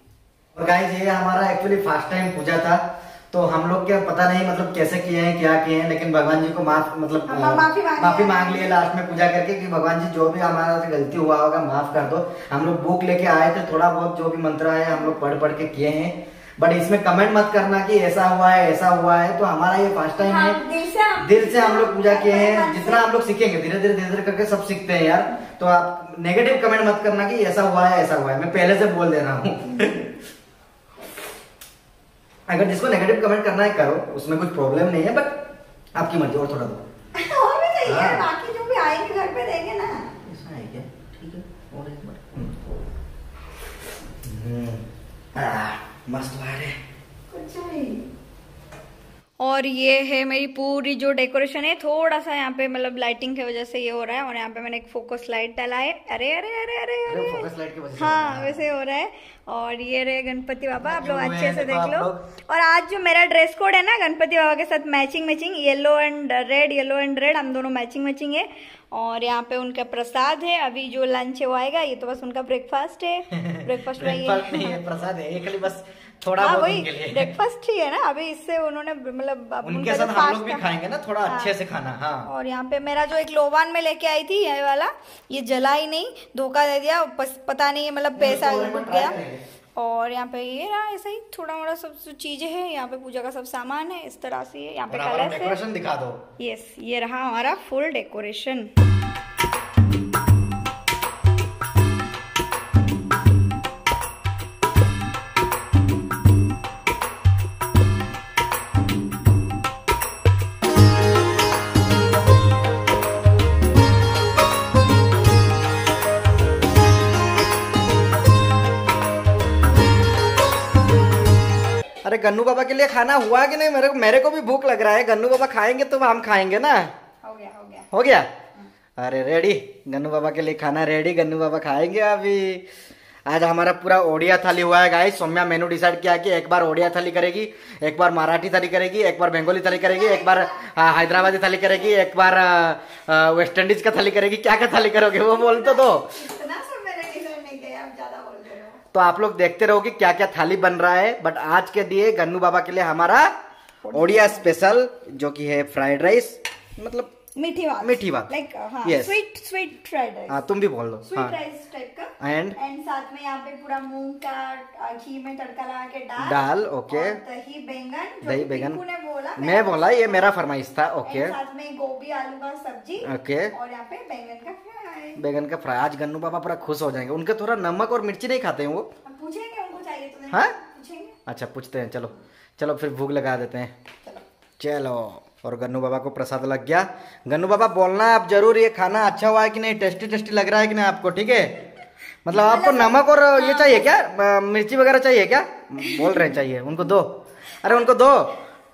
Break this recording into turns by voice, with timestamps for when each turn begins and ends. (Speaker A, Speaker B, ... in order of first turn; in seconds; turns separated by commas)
Speaker A: 0.5-20.6, Speaker B: 7.3-8.8, Speaker B: 20.2-23.1, Speaker A: 21.2-30.1, Speaker A: 32.5-35.4, Speaker A: 35.9-36.8, Speaker B: 37.1-40.1, Speaker A: 37.9-38.3, Speaker A: 40.2-42.5, Speaker A: 44.2-46.8, Speaker B: 47.3-48.0, Speaker B: 49.4-57.4, Speaker A: 57.1-58.6, Speaker B: 58.0-74.8, Speaker A: 60.8-62.2, Speaker A: 73.4-77.3, Speaker B: 76.4-80.7, Speaker A: 79.6-82.3, Speaker B: 81.2-81.5, Speaker B: 82.2-89.2, Speaker A: 88.1-89.4, Speaker B: 89.8-95.6, Speaker A: 94.9-96.2, Speaker B: 96.4-98.7, Speaker A: 122.0-126.9, Speaker B: 127.2-127.9, Speaker A: 127.9-128.3, Speaker A: 129.0-132.6, Speaker A: 133.2-146.1, Speaker B: 139.6-141.9, Speaker B: 145.2-148.8, Speaker A: 148.9-153.3, Speaker B: 153.8-154.5, Speaker A: 153.9-157.1, Speaker B: 157.3-160.4, Speaker A: 157.8-158.3, Speaker A: 158.8-159.2, Speaker A: 160.3-161.3, Speaker B: 161.0-170.3, Speaker A: 162.2-162.6, Speaker A: 166.2-167.2, Speaker A: 168.2-168.8, Speaker A: 169.4-171.3, Speaker B: 171.1-175.2, Speaker A: 173.0-173.5, Speaker A: 175.2-178.9, Speaker B: 179.1-181.2, Speaker A: 181.3-183.7, Speaker A: 184.6-191.5, Speaker A: 192.2-198.3, Speaker B: 192.3-193.9, Speaker B: 195.8-196.2, Speaker B: 197.6-197.9